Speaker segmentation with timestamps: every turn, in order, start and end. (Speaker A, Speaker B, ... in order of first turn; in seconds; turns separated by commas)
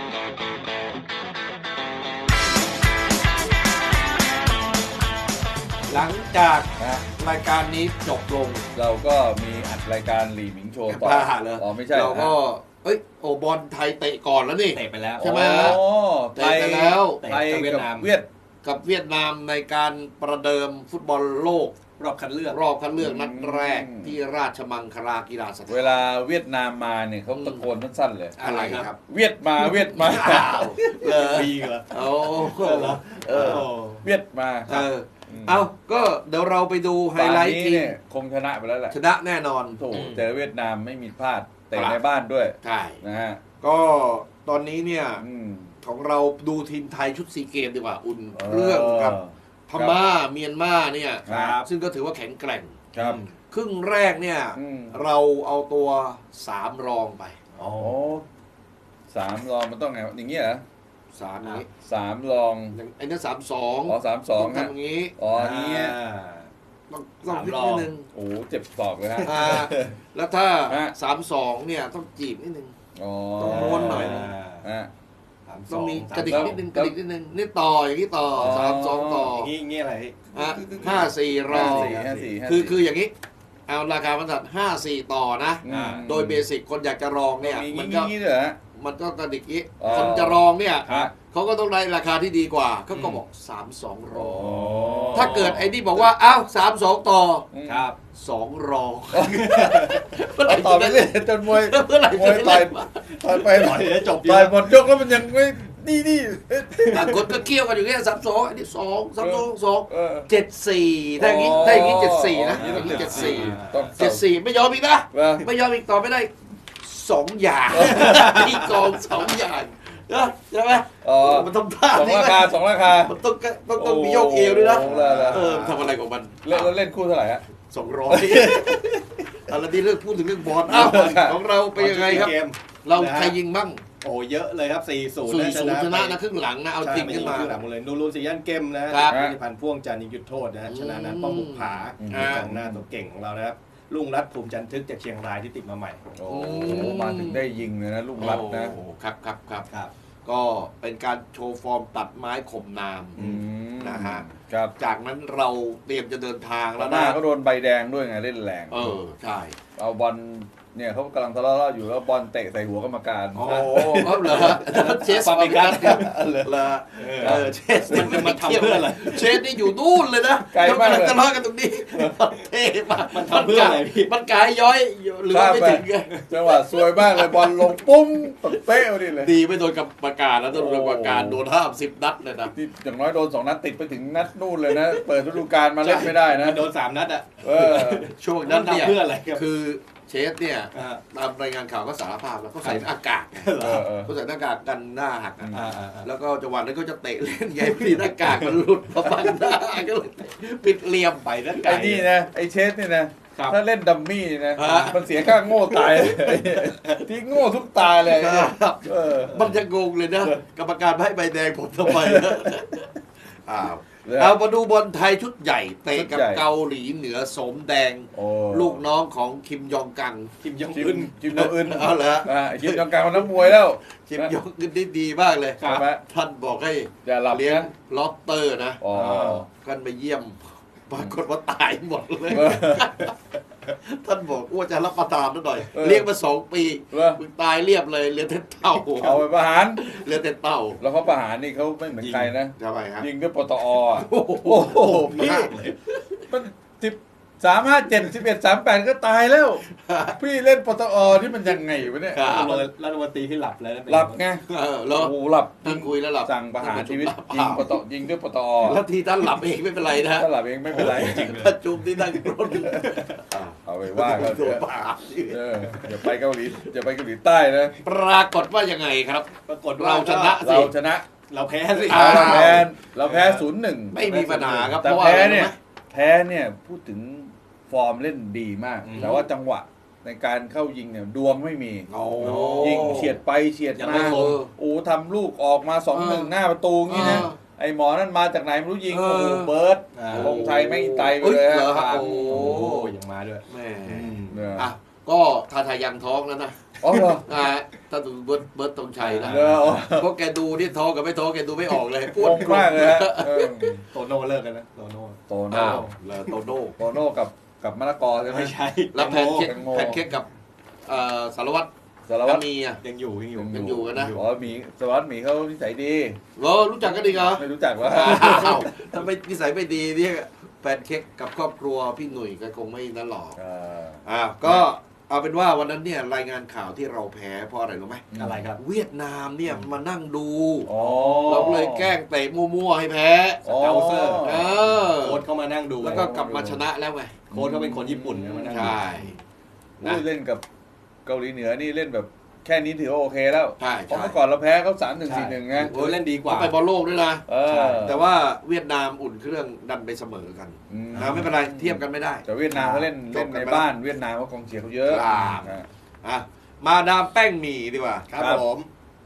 Speaker A: 5.9-8.7, Speaker B: 6.8-7.1, Speaker B: 8.7-12.4, Speaker A: 10.9-15.8, Speaker C: 14.7-15.6, Speaker B: 15.2-18.3, Speaker A: 16.4-17.2, Speaker C: 17.2-18.1, Speaker A: 18.6-21.8, Speaker C: 22.0-22.6, Speaker A: 22.5-26.0, Speaker B: 23.0-24.1, Speaker B: 25.7-28.4, Speaker A: 27.3-27.7, Speaker C: 28.4-28.9, Speaker A: 28.4-29.0, Speaker B: 29.1-30.6, Speaker C: 29.8-34.1, Speaker A: 29.9-33.6, Speaker B: 33.3-35.6, Speaker A: 34.7-38.0, Speaker B: 37.1-39.0, Speaker A: 38.9-39.8, Speaker B: 39.8-43.4, Speaker C: 39.9-40.2, Speaker A: 41.7-42.0, Speaker A: 42.6-43.0, Speaker A: 43.6-45.2, Speaker B: 45.2-45.7, Speaker A: 45.8-52.8, Speaker B: 48.3-50.1, Speaker C: 51.3-51.7, Speaker B: 51.3-51.6, Speaker B: 52.9-53.2, Speaker C: 53.0-53.3, Speaker A: 53.5-57.4, Speaker B: 54.6-55.0, Speaker C: 57.5-58.1, Speaker B: 57.8-58.2, Speaker B: 59.1-60.6, Speaker A: 61.1-61.7, Speaker B: 61.8-62.8, Speaker A: 62.7-65.2, Speaker B: 63.9-66.0, Speaker C: 65.3-66.5, Speaker A: 66.9-68.1, Speaker C: 67.2-67.9, Speaker B: 68.1-69.9, Speaker C: 69.2-69.6, Speaker A: 69.2-72.7, Speaker B: 70.7-70.9, Speaker B: 73.0-74.9, Speaker A: 73.4-74.3, Speaker C: 73.4-74.7, Speaker C: 75.5-76.6, Speaker A: 75.7-79.5, Speaker B: 76.2-76.9, Speaker B: 78.4-79.3, Speaker C: 79.3-82.3, Speaker A: 80.3-83.1, Speaker B: 81.5-82.8, Speaker A: 83.7-88.1, Speaker B: 85.6-86.5, Speaker C: 85.7-86.1, Speaker B: 87.4-88.6, Speaker A: 88.7-94.6, Speaker B: 89.8-91.1, Speaker C: 89.8-90.1, Speaker C: 90.8-91.1, Speaker C: 92.9-93.2, Speaker B: 94.2-95.5, Speaker C: 94.3-95.8, Speaker A: 95.1-97.5, Speaker B: 97.5-97.9, Speaker C: 97.7-98.0, Speaker A: 98.1-103.7, Speaker B: 99.1-99.6, Speaker C: 99.4-100.0, Speaker B: 100.4-107.3, Speaker C: 103.5-104.8, Speaker A: 106.9-126.7, Speaker B: 109.2-110.3, Speaker B: 111.2-114.2, Speaker C: 111.5-111.9, Speaker C: 112.6-113.9, Speaker B: 115.1-115.5, Speaker B: 117.7-118.3, Speaker B: 121.0-123.2, Speaker B: 123.8-125.9, Speaker C: 124.9-125.5, Speaker B: 126.4-127.4, Speaker A: 127.7-132.3, Speaker B: 128.1-129.0, Speaker B: 130.7-131.4, Speaker C: 131.8-133.4, Speaker A: 132.8-133.8, Speaker C: 134.0-136.2, Speaker A: 135.2-137.6, Speaker C: 136.8-146.1, Speaker A: 138.9-139.2, Speaker B: 139.1-139.4, Speaker A: 140.7-142.5, Speaker B: 142.0-142.8, Speaker B: 146.2-148.8, Speaker A: 146.3-147.5, Speaker A: 148.2-149.7, Speaker A: 150.2-153.2, Speaker C: 153.2-153.5, Speaker B: 153.2-154.7, Speaker A: 153.8-157.2, Speaker B: 156.8-158.9, Speaker A: 158.7-159.6, Speaker B: 159.8-164.9, Speaker A: 163.3-177.9, Speaker C: 163.8-166.1, Speaker B: 165.7-166.6, Speaker C: 167.0-169.5, Speaker B: 167.2-168.3, Speaker B: 170.5-171.2, Speaker C: 173.1-174.1, Speaker B: 175.3-179.3, Speaker A: 178.5-182.5, Speaker B: 180.5-181.4, Speaker B: 182.5-186.7, Speaker C: 184.7-185.1, Speaker C: 185.8-189.4, Speaker B: 187.4-188.1, Speaker A: 188.2-201.8, Speaker C: 190.7-191.0, Speaker C: 192.6-193.9, Speaker B: 193.6-194.1, Speaker C: 195.5-196.1, Speaker C: 197.6-198.4, Speaker C: 201.2-202.1, Speaker B: 201.6-209.5, Speaker A: 204.6-205.0, Speaker C: 204.9-207.0, Speaker A: 207.9-220.3, Speaker B: 211.9-212.5, Speaker B: 214.1-214.4, Speaker B: 215.9-216.4, Speaker B: 218.1-218.8, Speaker C: 220.4-221.1, Speaker B: 220.7-224.3, Speaker A: 221.3-233.1, Speaker C: 225.6-225.9, Speaker B: 225.6-226.0, Speaker B: 227.1-227.7, Speaker B: 228.8-229.5, Speaker B: 232.3-232.8, Speaker A: 233.7-239.2, Speaker B: 235.7-236.1, Speaker B: 236.9-237.2, Speaker B: 239.0-239.8, Speaker A: 239.8-240.8, Speaker B: 240.8-245.5, Speaker C: 242.0-242.3, Speaker A: 242.6-243.1, Speaker A: 243.9-246.3, Speaker C: 244.7-245.8, Speaker B: 246.3-249.7, Speaker A: 249.7-250.2, Speaker B: 250.2-252.6, Speaker A: 252.1-252.6, Speaker C: 252.2-254.2, Speaker B: 253.9-258.8, Speaker A: 254.5-257.7, Speaker A: 258.6-265.4, Speaker B: 260.1-261.4, Speaker C: 260.8-261.5, Speaker C: 262.9-263.1, Speaker B: 263.6-264.6, Speaker B: 265.3-267.8, Speaker A: 267.8-270.7, Speaker C: 269.5-270.4, Speaker B: 270.4-271.1, Speaker C: 271.3-273.5, Speaker B: 271.8-274.0, Speaker A: 271.9-272.7, Speaker A: 273.9-275.6, Speaker C: 274.0-274.7, Speaker B: 274.7-292.7, Speaker C: 278.8-279.2, Speaker A: 279.0-279.2, Speaker A: 281.9-283.2, Speaker C: 282.2-283.1, Speaker C: 283.8-284.4, Speaker A: 283.9-284.5, Speaker A: 285.9-286.3, Speaker A: 286.9-287.4, Speaker A: 288.9-289.5, Speaker C: 289.9-290.4, Speaker A: 290.1-292.9, Speaker C: 291.7-294.5, Speaker A: 293.5-303.8, Speaker B: 294.3-294.7, Speaker B: 296.8-297.3, Speaker C: 299.0-299.8, Speaker B: 299.2-300.1, Speaker B: 302.2-303.8, Speaker C: 303.9-306.4, Speaker B: 305.3-305.9, Speaker A: 305.5-306.8, Speaker B: 306.8-308.6, Speaker C: 308.2-309.5, Speaker A: 308.9-310.3, Speaker B: 309.4-310.0, Speaker A: 310.9-311.7, Speaker B: 312.1-312.4, Speaker A: 312.2-312.8, Speaker C: 312.8-314.3, Speaker B: 313.4-316.2, Speaker A: 313.5-314.2, Speaker A: 316.4-323.4, Speaker B: 316.9-318.6, Speaker B: 323.4-324.7, Speaker A: 324.0-328.0, Speaker B: 328.1-328.5, Speaker C: 328.1-328.6, Speaker A: 328.6-330.7, Speaker B: 330.7-331.9, Speaker C: 330.7-331.6, Speaker A: 331.3-333.4, Speaker B: 333.4-334.5, Speaker C: 333.4-334.3, Speaker A: 334.2-335.2, Speaker C: 334.8-336.1, Speaker B: 335.8-336.6, Speaker A: 335.8-337.2, Speaker C: 337.3-339.0, Speaker B: 337.3-338.8, Speaker A: 338.5-339.2, Speaker B: 339.8-340.4, Speaker B: 341.1-345.7, Speaker A: 343.6-344.2, Speaker C: 345.1-346.6, Speaker A: 345.7-347.3, Speaker B: 347.3-348.0, Speaker C: 347.5-347.9, Speaker A: 347.8-353.7, Speaker B: 350.7-355.7, Speaker C: 350.9-351.3, Speaker A: 354.9-358.2, Speaker C: 358.1-358.7, Speaker B: 358.1-358.4